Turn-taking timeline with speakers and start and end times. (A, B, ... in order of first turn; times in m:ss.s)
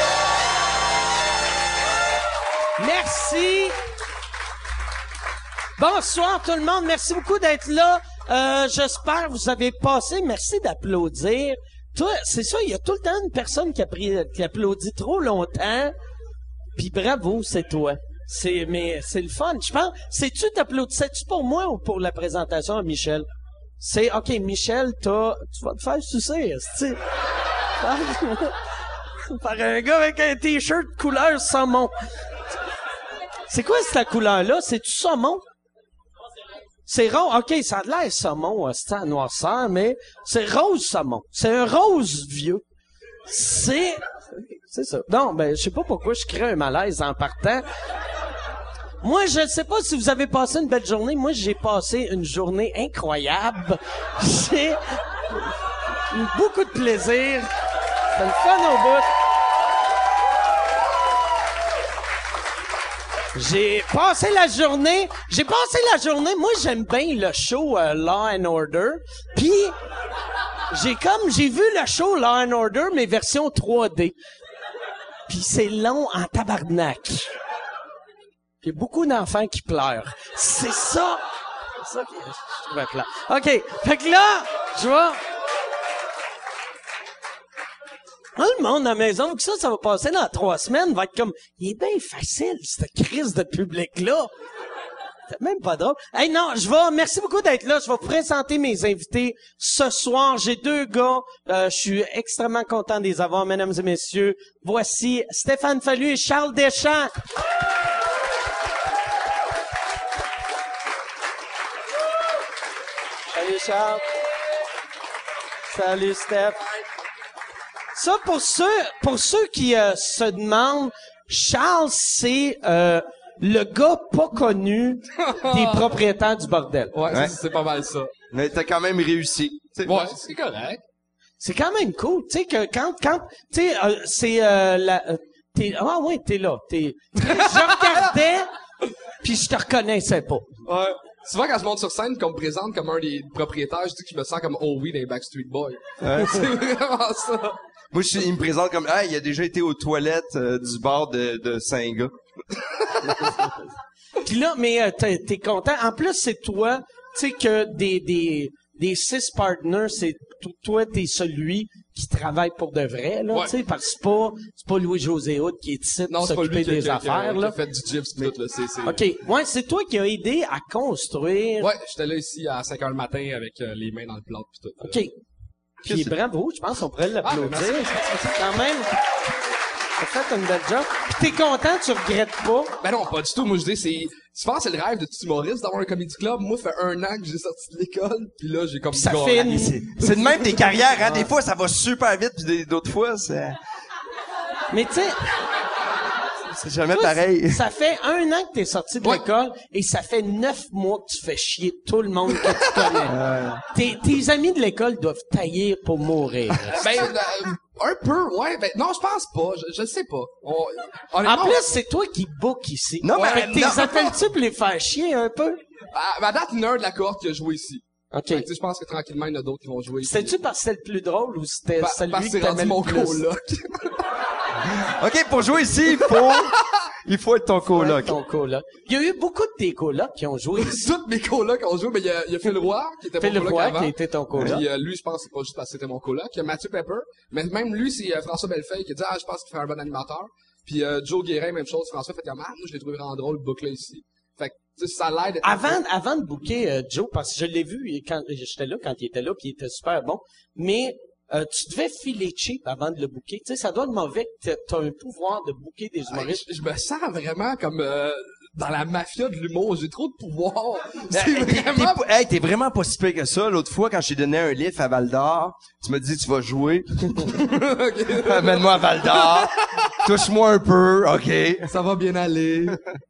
0:02.8-0:03.7 A
0:05.8-0:15.9 A
0:16.8-0:23.3 A
0:23.8-0:27.0 A
0:27.8-0:28.6 A
0:29.3-0:31.9 A
0:33.5-0:35.4 A
0:36.8-0:42.6 A
0:43.3-0:47.6 A
0:49.0-0:55.4 A
0:56.1-0:57.5 A
0:58.1-0:59.1 A
1:03.3-1:09.7 A
1:10.7-1:14.1 A
1:15.3-1:17.3 A
1:18.6-1:21.2 A
1:21.8-1:25.2 A
1:28.4-1:34.3 A
1:35.3-1:47.1 A
1:53.3-1:54.0 A
1:55.7-1:56.6 A
1:57.9-2:06.9 A
2:05.2-2:05.9 B
2:06.9-2:08.1 B
2:08.3-2:10.2 C
2:09.8-2:10.8 B
2:11.4-2:18.5 A
2:19.2-2:20.5 A
2:20.6-2:27.6 B
2:26.0-2:26.5 C
2:27.9-2:32.2 C
2:34.2-2:47.6 A
2:46.1-2:49.0 B
2:48.8-2:51.7 A
2:51.6-2:55.0 B
2:54.8-2:55.1 A
2:55.8-2:58.9 A
2:55.8-2:56.1 C
2:57.2-2:58.4 B
3:00.0-3:02.7 A
3:02.8-3:10.6 B
3:08.9-3:09.8 A
3:09.5-3:13.6 C
3:14.7-3:15.2 A
3:16.5-3:17.6 C
3:16.9-3:23.2 A
3:23.0-3:23.6 C
3:23.7-3:27.0 A
3:26.7-3:31.6 B
3:31.2-3:35.6 A
3:33.0-3:34.1 C
3:33.1-3:34.1 B
3:35.9-3:40.3 B
3:38.1-3:38.4 A
3:40.0-3:43.2 A
3:41.8-3:44.0 B
3:44.6-3:48.2 C
3:46.1-3:46.6 B
3:47.7-3:50.9 A
3:50.6-4:05.8 B
3:53.2-3:54.6 A
4:05.4-4:16.4 A
4:16.1-4:22.0 B
4:21.1-4:27.4 C
4:27.4-4:30.0 B
4:28.1-4:31.7 C
4:31.7-4:32.8 B